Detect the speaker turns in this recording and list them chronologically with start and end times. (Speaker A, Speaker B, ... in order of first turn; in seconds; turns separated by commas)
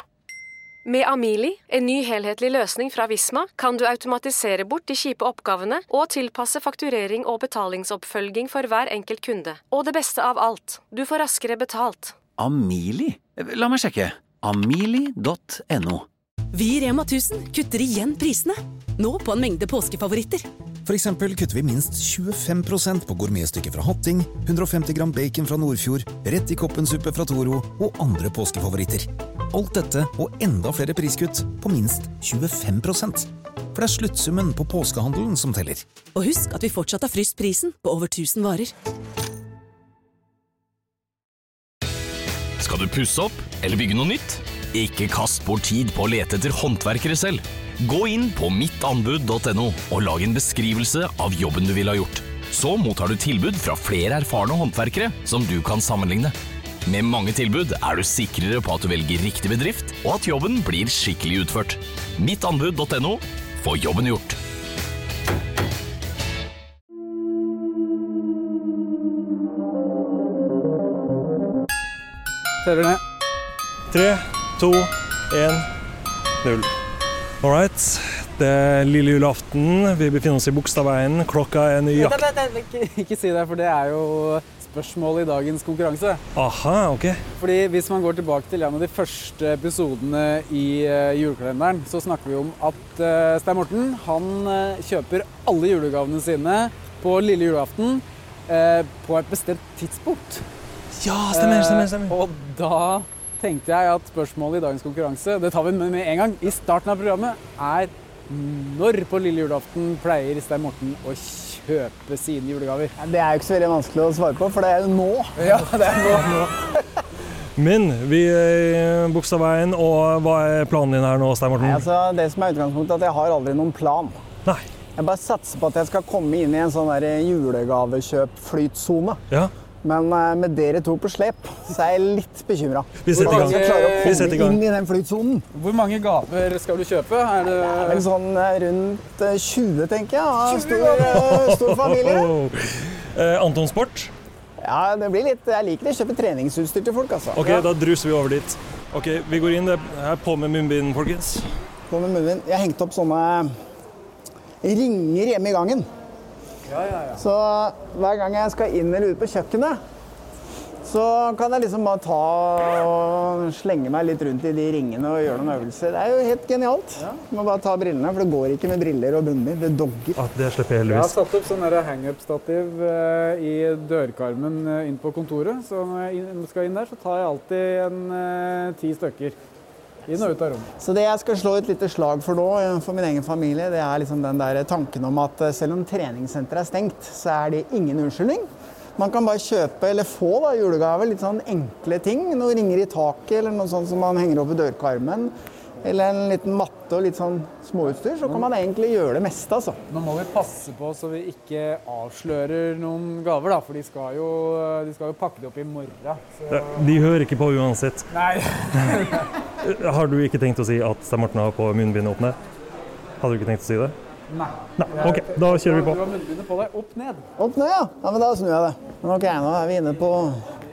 Speaker A: 0.8-12.2, Speaker B: 12.4-16.1, Speaker C: 16.5-20.4, Speaker D: 20.9-35.9, Speaker C: 36.1-38.7, Speaker E: 42.6-56.3, Speaker E: 56.9-64.4, Speaker F: 72.6-73.0, Speaker G: 73.9-75.7, Speaker G: 76.4-76.7, Speaker G: 77.4-82.2, Speaker F: 82.0-86.2, Speaker G: 86.4-87.2, Speaker F: 87.4-100.4, Speaker G: 100.9-102.1, Speaker F: 101.3-112.9, Speaker H: 113.0-115.4, Speaker F: 115.4-116.5, Speaker G: 117.6-121.8, Speaker H: 121.6-124.2, Speaker H: 125.0-129.2, Speaker H: 129.8-135.5, Speaker G: 133.0-134.6, Speaker F: 133.2-134.2, Speaker F: 135.5-138.1, Speaker H: 137.6-142.3, Speaker G: 140.9-144.1, Speaker H: 144.6-147.7, Speaker G: 147.4-151.4, Speaker H: 151.9-153.5, Speaker H: 154.6-155.9, Speaker F: 156.7-157.2, Speaker H: 157.1-159.8, Speaker H: 160.8-170.2, Speaker G: 170.2-171.2, Speaker F: 170.9-179.4, Speaker F: 180.1-180.7, Speaker H: 180.8-199.8, Speaker F: 199.9-206.4, Speaker G: 206.5-208.1, Speaker F: 208.1-209.3, Speaker G: 209.6-212.4, Speaker G: 213.2-213.9, Speaker F: 214.3-217.2, Speaker G: 214.8-216.0, Speaker H: 217.4-220.4